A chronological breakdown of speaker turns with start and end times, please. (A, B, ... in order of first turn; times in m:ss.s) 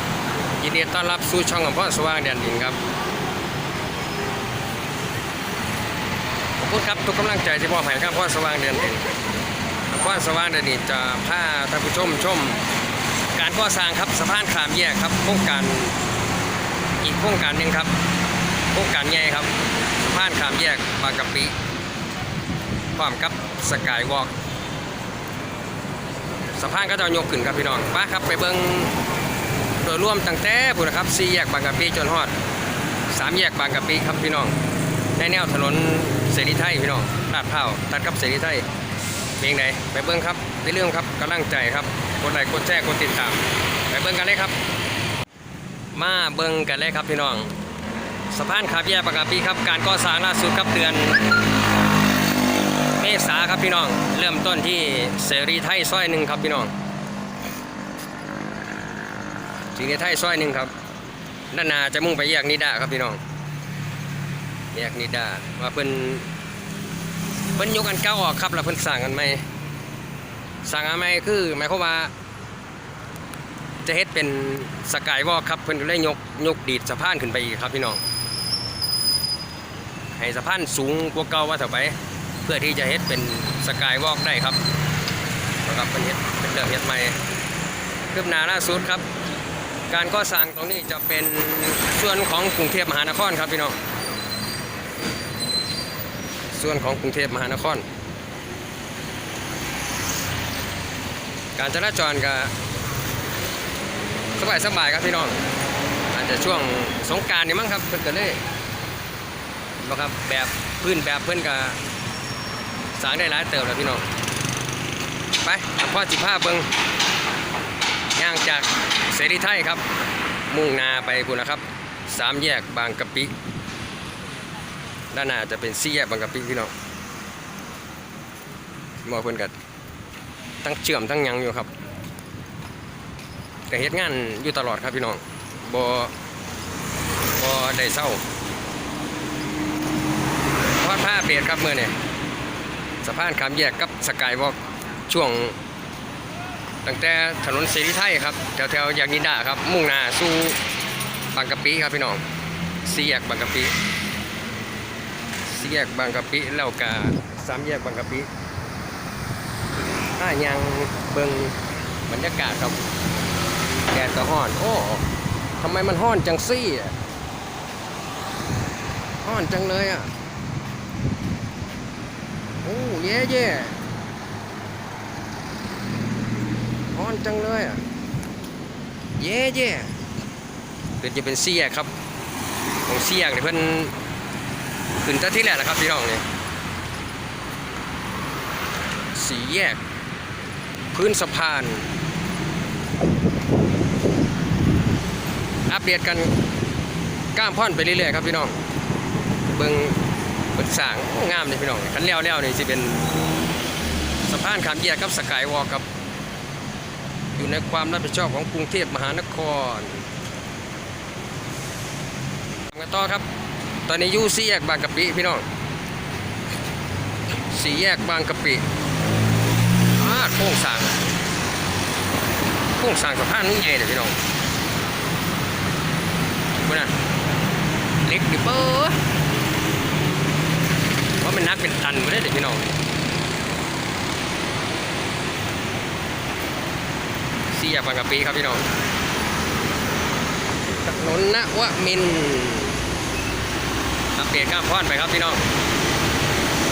0:00.6-0:02.8 A
0:06.6-0:09.1 A
0:09.9-0:12.6 A
0:13.3-0:16.0 A
0:17.0-0:17.9 A
0:18.7-0:21.5 A
0:22.9-0:24.3 A
0:26.5-0:29.0 A
0:29.8-0:32.3 A
0:33.1-0:34.6 A
0:35.2-0:38.6 A
0:39.4-0:44.6 A
0:45.9-0:47.6 A
0:48.3-0:51.4 A
0:53.0-0:56.7 A
0:59.7-1:00.7 A
1:01.5-1:03.2 A
1:04.7-1:06.3 A
1:07.6-1:09.4 A
1:10.6-1:12.1 A
1:13.8-1:18.0 A
1:20.1-1:24.6 A
1:25.6-1:27.2 A
1:28.1-1:29.0 A
1:29.9-1:33.8 A
1:36.5-1:37.8 A
1:41.6-1:42.5 A
1:44.4-1:45.4 A
1:46.1-1:48.4 A
1:49.8-1:51.8 A
1:52.9-1:54.1 A
1:55.4-1:56.7 A
1:58.2-1:59.8 A
2:00.5-2:03.3 A
2:05.1-2:06.7 A
2:09.0-2:09.5 A
2:10.6-2:11.7 A
2:13.7-2:16.1 A
2:17.3-2:18.2 A
2:20.8-2:21.9 A
2:23.0-2:25.6 A
2:26.8-2:30.6 A
2:31.3-2:32.2 A
2:32.8-2:33.7 A
2:35.4-2:38.3 A
2:40.2-2:41.6 A
2:42.1-2:42.9 A
2:43.9-2:45.0 A
2:45.6-2:46.9 A
2:49.2-2:50.1 A
2:52.6-2:53.8 A
2:56.9-2:57.8 A
2:59.2-2:59.9 A
3:01.0-3:01.9 A
3:02.8-3:03.9 A
3:05.0-3:06.2 A
3:09.1-3:09.8 A
3:10.9-3:11.9 A
3:15.7-3:16.3 A
3:17.3-3:18.6 A
3:19.4-3:20.0 A
3:20.5-3:23.1 A
3:24.2-3:25.8 A
3:27.3-3:30.0 A
3:32.7-3:33.3 A
3:33.9-3:35.4 A
3:37.5-3:38.6 A
3:39.9-3:41.1 A
3:42.7-3:44.2 A
3:46.6-3:46.9 A
3:48.0-3:49.0 A
3:51.2-3:52.7 A
3:57.5-3:58.7 A
4:00.8-4:02.8 A
4:04.1-4:05.4 A